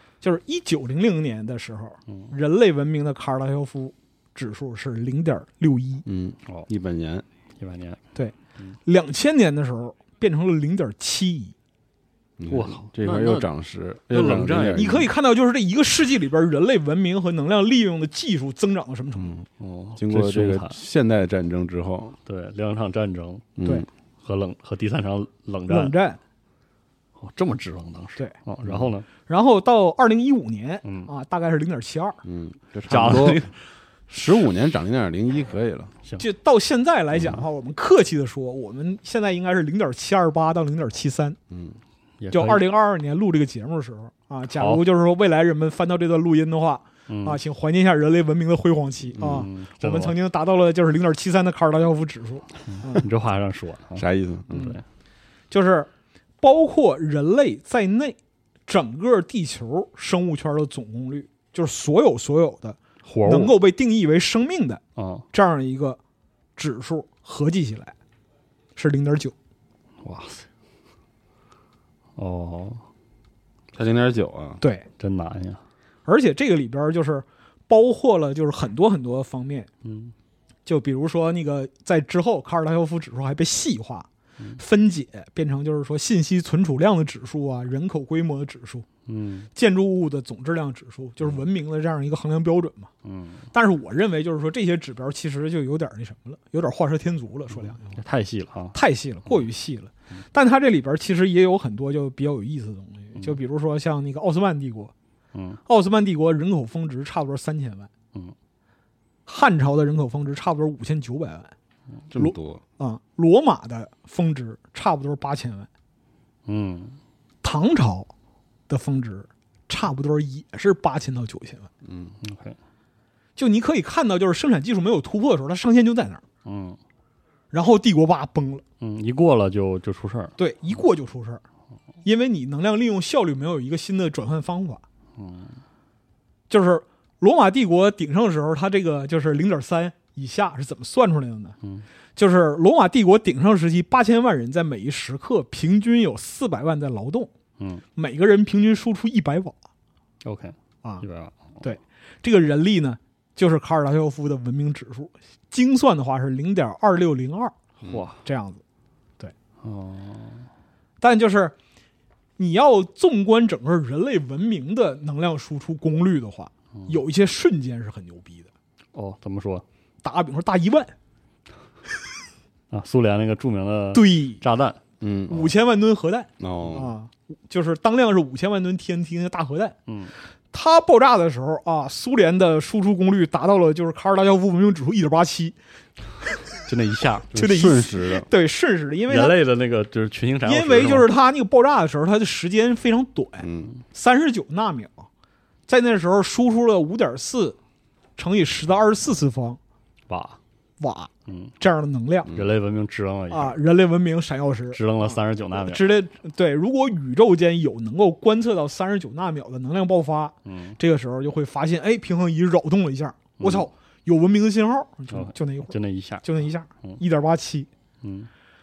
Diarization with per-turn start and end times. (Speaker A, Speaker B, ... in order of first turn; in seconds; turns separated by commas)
Speaker A: 0.2-6.0, Speaker B: 6.0-7.2, Speaker C: 7.6-8.0, Speaker A: 8.2-11.5, Speaker B: 12.4-15.1, Speaker C: 12.5-13.5, Speaker C: 14.1-15.1, Speaker A: 14.7-19.4, Speaker C: 19.6-20.8, Speaker B: 19.9-22.2, Speaker C: 22.2-23.5, Speaker B: 23.6-23.9, Speaker C: 24.2-25.9, Speaker A: 25.7-26.2, Speaker C: 27.2-29.1, Speaker B: 28.6-28.9, Speaker A: 29.2-32.2, Speaker C: 30.8-31.1, Speaker B: 32.2-33.4, Speaker C: 32.9-33.5, Speaker B: 34.1-35.9, Speaker A: 36.2-41.4, Speaker B: 41.5-41.8, Speaker C: 42.2-42.6, Speaker A: 42.3-53.0, Speaker C: 47.1-47.4, Speaker C: 49.2-50.1, Speaker B: 49.2-49.5, Speaker C: 52.7-54.8, Speaker B: 54.0-54.7, Speaker A: 54.5-54.8, Speaker A: 55.5-55.9, Speaker A: 56.4-58.1, Speaker A: 58.7-64.8, Speaker C: 63.0-63.5, Speaker C: 65.0-65.2, Speaker A: 65.3-66.0, Speaker A: 66.6-67.9, Speaker A: 68.8-69.3, Speaker C: 70.0-70.5, Speaker C: 72.2-72.8, Speaker B: 73.7-74.6, Speaker A: 74.6-74.9, Speaker C: 75.0-75.6, Speaker A: 76.0-79.7, Speaker C: 79.8-80.1, Speaker A: 80.7-84.1, Speaker A: 84.6-88.8, Speaker C: 89.0-89.5, Speaker A: 89.5-92.9, Speaker C: 93.0-93.5, Speaker A: 93.5-97.9, Speaker C: 97.8-98.8, Speaker A: 98.7-104.9, Speaker C: 105.3-105.6, Speaker A: 105.7-107.9, Speaker A: 109.3-111.5, Speaker B: 112.1-112.6, Speaker A: 112.2-115.7, Speaker C: 116.5-117.0, Speaker A: 117.4-118.1, Speaker A: 118.7-121.7, Speaker B: 121.8-122.2, Speaker C: 122.2-122.6, Speaker A: 123.3-126.2, Speaker C: 126.4-126.8, Speaker A: 127.5-128.6, Speaker C: 128.8-130.3, Speaker A: 130.4-131.4, Speaker A: 132.0-134.8, Speaker C: 135.2-135.6, Speaker A: 136.5-141.6, Speaker A: 142.2-147.3, Speaker C: 147.6-147.8, Speaker A: 147.9-149.5, Speaker C: 150.2-151.6, Speaker A: 151.6-157.6, Speaker C: 157.8-158.2, Speaker A: 158.2-158.6, Speaker C: 159.6-160.5, Speaker A: 161.0-161.5, Speaker A: 162.4-168.5, Speaker C: 168.9-169.6, Speaker A: 170.0-170.9, Speaker C: 172.7-174.8, Speaker A: 173.9-174.4, Speaker B: 175.0-175.5, Speaker A: 175.3-179.8, Speaker B: 176.4-176.9, Speaker C: 179.9-180.1, Speaker A: 180.5-185.5, Speaker C: 186.7-187.3, Speaker B: 187.3-188.3, Speaker A: 187.3-189.3, Speaker C: 189.1-191.1, Speaker A: 190.4-195.1, Speaker B: 193.4-193.7, Speaker A: 195.7-197.6, Speaker A: 198.2-199.6, Speaker C: 200.1-200.4, Speaker A: 200.8-202.3, Speaker C: 201.3-201.5, Speaker C: 202.3-203.6, Speaker A: 203.3-217.7, Speaker C: 204.7-205.8, Speaker C: 210.4-210.8, Speaker C: 213.4-213.7, Speaker C: 215.1-216.2, Speaker C: 218.0-218.3